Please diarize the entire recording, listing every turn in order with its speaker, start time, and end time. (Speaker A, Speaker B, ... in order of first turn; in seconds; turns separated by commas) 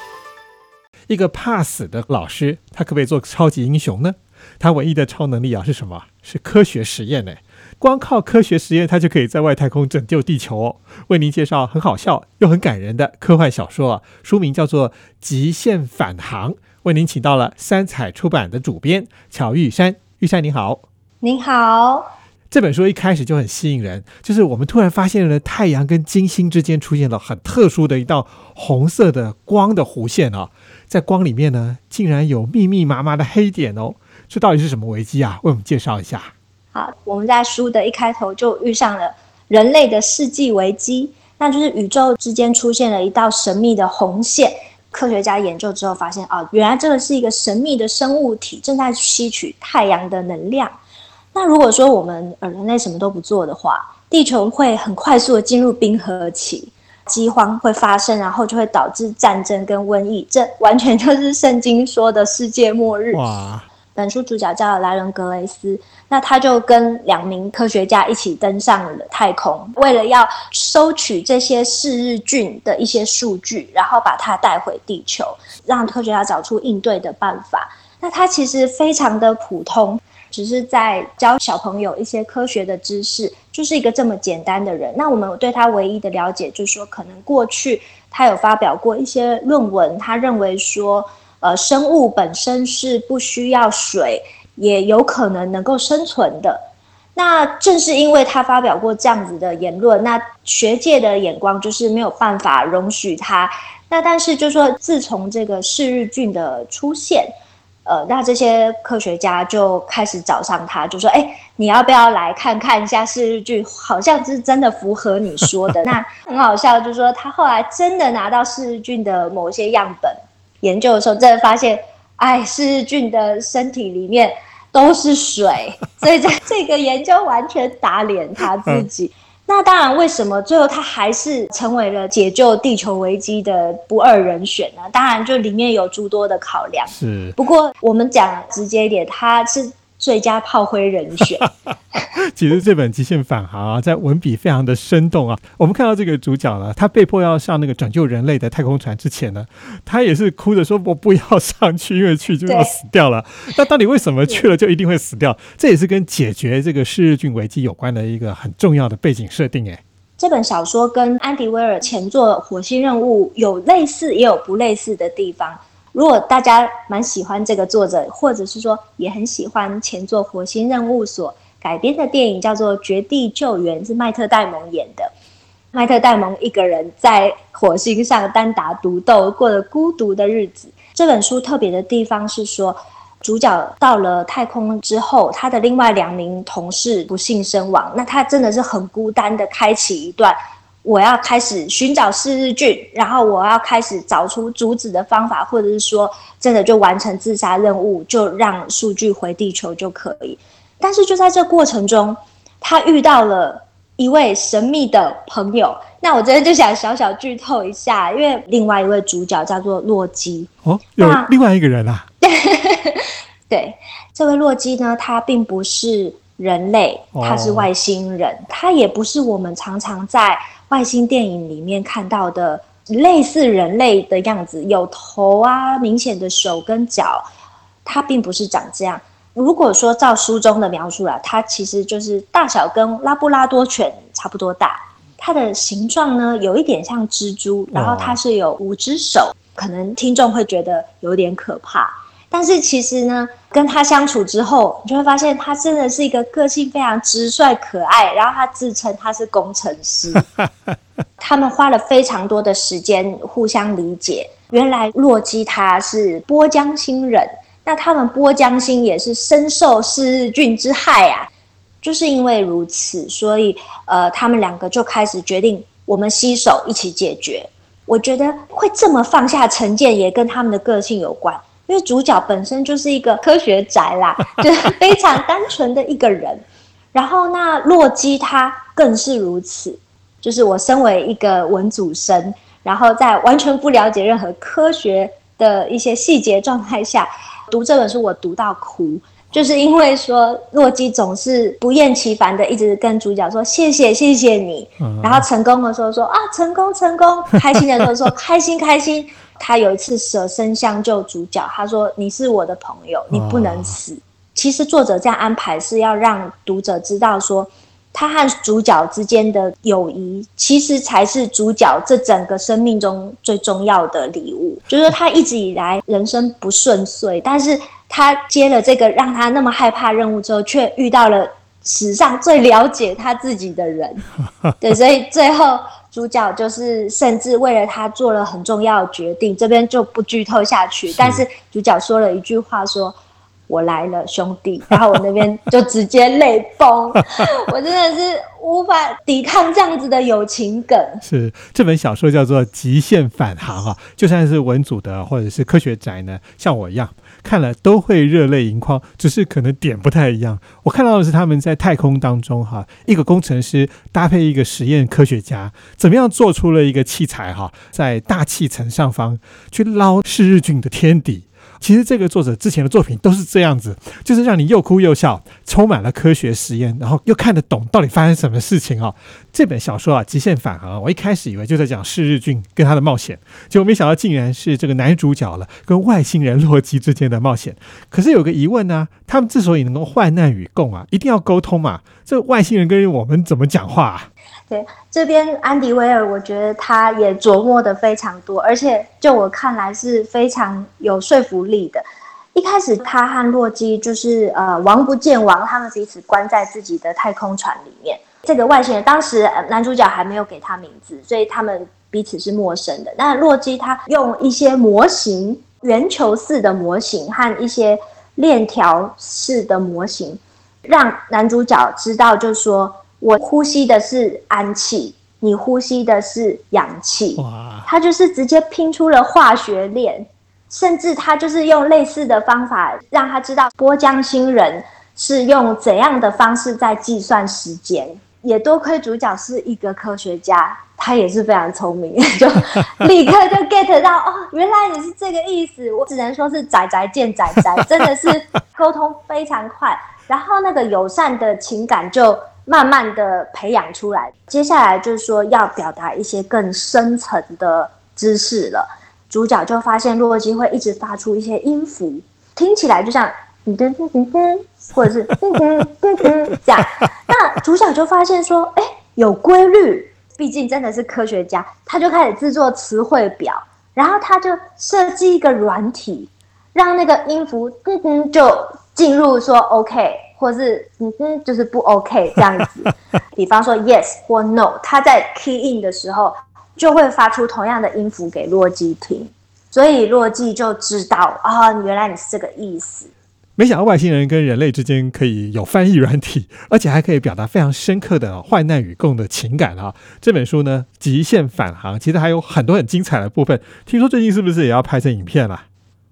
Speaker A: 1.1-20.8, Speaker B: 21.2-22.1, Speaker A: 22.5-36.3, Speaker B: 36.7-50.7, Speaker B: 51.3-63.3, Speaker A: 63.1-63.7, Speaker B: 64.0-96.6, Speaker B: 97.2-107.3, Speaker B: 107.8-141.5, Speaker A: 136.9-137.3, Speaker A: 142.3-159.8, Speaker B: 152.5-152.7, Speaker B: 160.2-175.1, Speaker B: 175.7-211.3, Speaker A: 210.6-212.1, Speaker B: 212.2-227.2, Speaker A: 217.2-217.7, Speaker B: 227.8-250.3, Speaker A: 237.7-238.2, Speaker B: 251.2-261.3, Speaker B: 261.8-324.1, Speaker A: 294.8-295.3, Speaker A: 303.1-303.8, Speaker B: 324.6-333.0, Speaker A: 330.9-331.2, Speaker B: 333.5-341.0, Speaker A: 341.0-384.1, Speaker B: 384.5-482.9, Speaker A: 417.2-417.7, Speaker A: 483.4-495.4